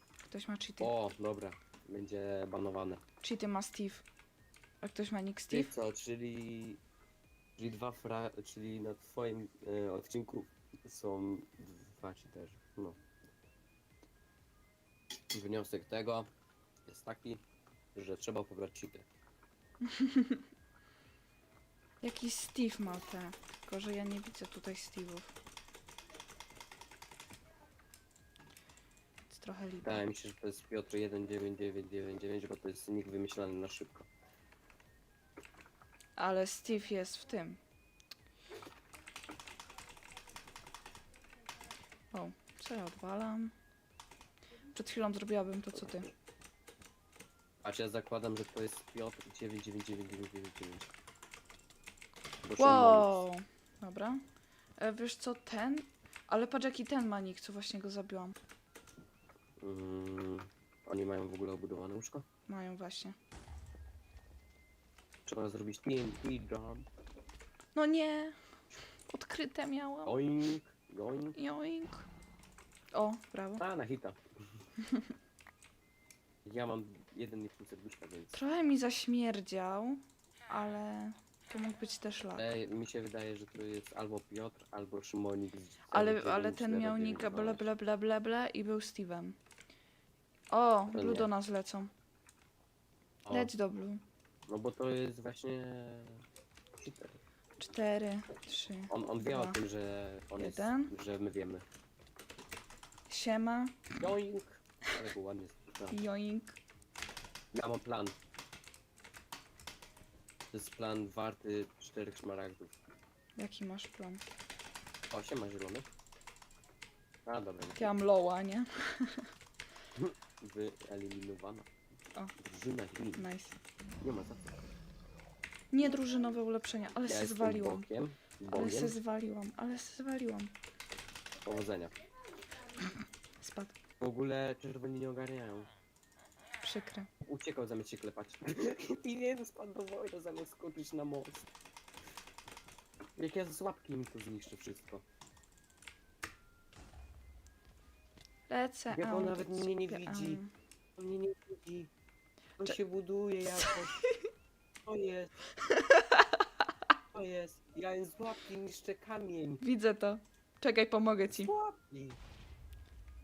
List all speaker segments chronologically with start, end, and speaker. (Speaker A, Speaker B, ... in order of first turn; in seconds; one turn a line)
Speaker A: 0.3-0.9
Speaker B: 0.8-3.0
Speaker A: 3.2-4.0
Speaker A: 4.8-5.7
Speaker B: 5.5-6.8
Speaker B: 7.6-13.0
Speaker B: 15.3-16.3
Speaker B: 16.9-17.4
Speaker B: 17.9-19.1
Speaker A: 19.8-20.4
Speaker A: 22.0-25.3
Speaker A: 29.3-30.0
Speaker B: 29.8-34.1
Speaker A: 36.2-37.6
Speaker A: 42.1-43.5
Speaker A: 44.7-46.1
Speaker B: 47.6-50.9
Speaker B: 52.4-53.2
Speaker A: 52.6-54.2
Speaker A: 54.8-58.4
Speaker B: 59.6-62.2
Speaker A: 62.5-63.1
Speaker B: 65.3-66.9
Speaker A: 67.8-68.4
Speaker A: 69.1-70.2
Speaker B: 70.1-71.4
Speaker A: 71.4-72.1
Speaker A: 72.9-73.6
Speaker B: 73.6-74.2
Speaker A: 74.8-75.1
Speaker B: 76.5-78.4
Speaker A: 78.3-82.5
Speaker B: 82.4-87.7
Speaker A: 85.9-89.4
Speaker A: 90.5-91.9
Speaker B: 90.9-91.3
Speaker B: 93.3-93.5
Speaker A: 93.3-94.0
Speaker B: 94.5-96.2
Speaker B: 96.8-97.2
Speaker A: 97.6-99.6
Speaker B: 98.9-101.7
Speaker A: 100.4-100.9
Speaker A: 103.1-104.0
Speaker B: 104.0-106.0
Speaker A: 105.9-106.6
Speaker B: 107.5-108.2
Speaker B: 110.5-112.8
Speaker A: 113.4-114.2
Speaker B: 115.1-115.9
Speaker B: 117.3-118.0
Speaker A: 117.8-119.3
Speaker B: 120.0-121.7
Speaker B: 122.4-123.3
Speaker A: 123.2-123.6
Speaker B: 124.0-124.6
Speaker A: 125.7-127.9
Speaker B: 127.1-129.0
Speaker A: 128.5-130.6
Speaker B: 131.4-132.0
Speaker A: 133.4-133.8
Speaker B: 134.0-135.7
Speaker A: 136.6-137.1
Speaker B: 137.2-141.5
Speaker B: 143.2-145.0
Speaker A: 148.5-150.5
Speaker B: 148.9-150.4
Speaker B: 151.0-151.9
Speaker B: 152.6-154.1
Speaker A: 153.5-154.3
Speaker B: 154.9-155.3
Speaker A: 155.6-156.6
Speaker B: 157.1-159.6
Speaker A: 159.6-161.5
Speaker B: 161.3-162.2